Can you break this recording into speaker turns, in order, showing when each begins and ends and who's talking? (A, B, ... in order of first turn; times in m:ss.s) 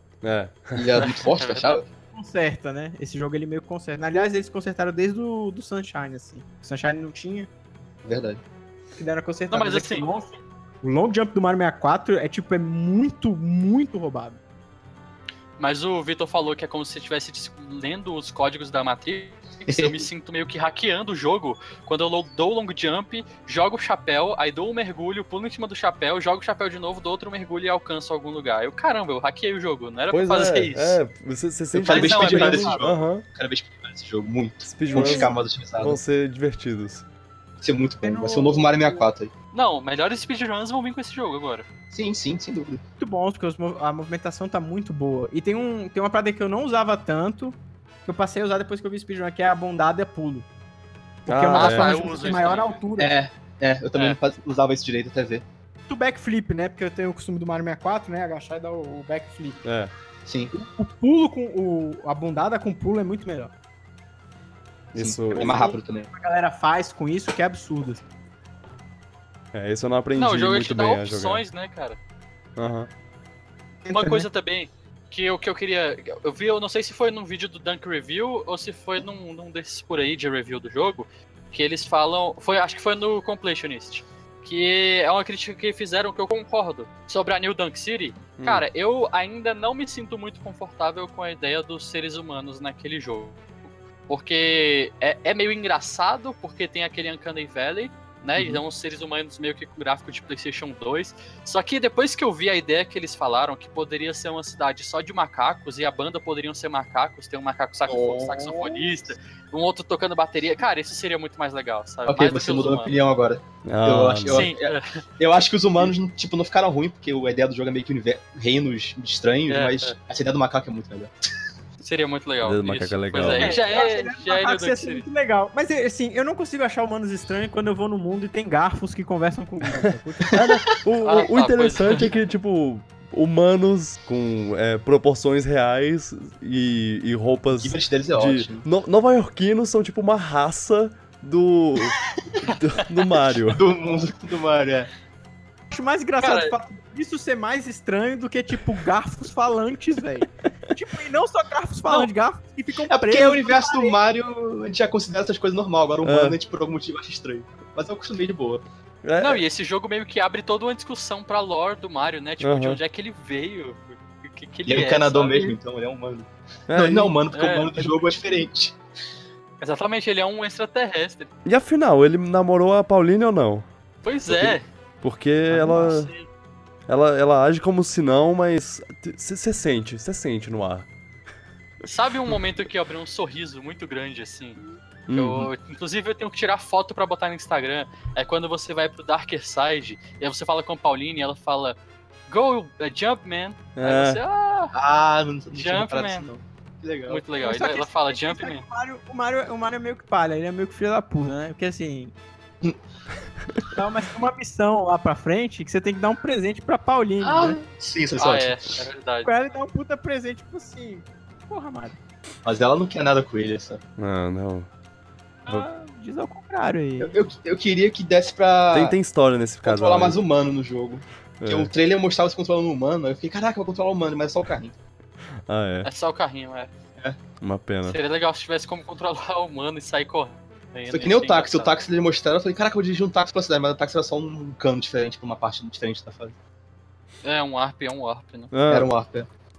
0:00.2-0:01.0 A
0:00.7-0:01.8 B
0:01.0-0:01.8 C
0:02.1-0:07.5 D
0:08.0-0:08.4 B
0:09.0-0:14.4 D
0:09.5-0:10.1 C
0:15.6-0:31.0 C
0:19.7-0:20.0 B
0:30.1-0:33.2 A
0:31.7-0:36.0 B
0:31.8-0:32.8 C
0:34.6-0:37.0 A
0:34.9-0:35.4 D
0:37.6-0:39.3 B
0:38.0-0:39.1 D
0:39.5-0:41.7 C
0:41.9-0:42.8 B
0:43.0-0:50.5 D
0:51.2-0:53.1 D
0:51.3-0:52.0 A
0:51.5-0:52.8 C
0:53.0-0:55.4 B
0:55.9-0:59.6 D
0:59.6-0:59.9 A
1:00.2-1:00.5 B
1:00.5-1:03.5 D
1:04.9-1:05.7 A
1:05.0-1:06.1 B
1:05.3-1:08.0 D
1:09.5-1:11.4 A
1:10.2-1:12.0 C
1:12.6-1:12.9 A
1:13.8-1:14.2 D
1:13.9-1:33.4 C
1:28.4-1:28.6 A
1:34.1-1:52.9 C
1:47.8-1:48.9 B
1:52.1-2:01.1 B
1:53.6-1:54.5 A
1:54.3-1:55.0 C
1:59.5-2:00.0 C
2:01.8-2:05.0 C
2:02.4-2:03.6 A
2:03.2-2:10.4 D
2:10.3-2:10.6 B
2:10.3-2:23.6 A
2:11.0-2:12.1 C
2:17.5-2:18.6 B
2:23.5-2:24.9 B
2:25.7-2:34.0 D
2:26.2-2:26.5 C
2:32.9-2:38.6 B
2:36.0-2:36.4 A
2:39.0-2:39.4 A
2:39.2-2:45.6 C
2:42.4-2:42.8 A
2:44.6-2:48.7 B
2:46.7-2:47.2 A
2:47.3-2:47.9 C
2:49.6-2:51.3 C
2:51.4-2:53.6 A
2:54.0-2:54.6 C
2:54.3-2:54.6 B
2:55.0-2:56.1 A
2:55.7-2:56.2 C
2:56.9-3:00.9 A
3:01.8-3:04.6 C
3:05.1-3:05.5 A
3:05.1-3:11.8 C
3:12.3-3:14.7 C
3:13.8-3:14.2 A
3:14.7-3:17.2 B
3:15.5-3:16.3 C
3:17.1-3:18.6 C
3:17.4-3:22.1 D
3:23.7-3:27.6 D
3:27.2-3:28.7 B
3:28.2-3:29.3 C
3:29.2-3:32.0 D
3:32.4-3:33.8 B
3:34.0-3:34.7 A
3:35.4-3:37.2 D
3:37.0-3:39.0 B
3:38.7-3:40.2 A
3:39.6-3:44.7 B
3:41.4-3:41.7 A
3:45.5-3:45.9 A
3:45.8-3:46.7 C
3:47.4-3:48.0 A
3:47.8-3:51.7 C
3:50.9-3:56.3 B
3:57.2-3:58.5 C
3:58.5-3:58.9 A
3:58.7-3:59.3 B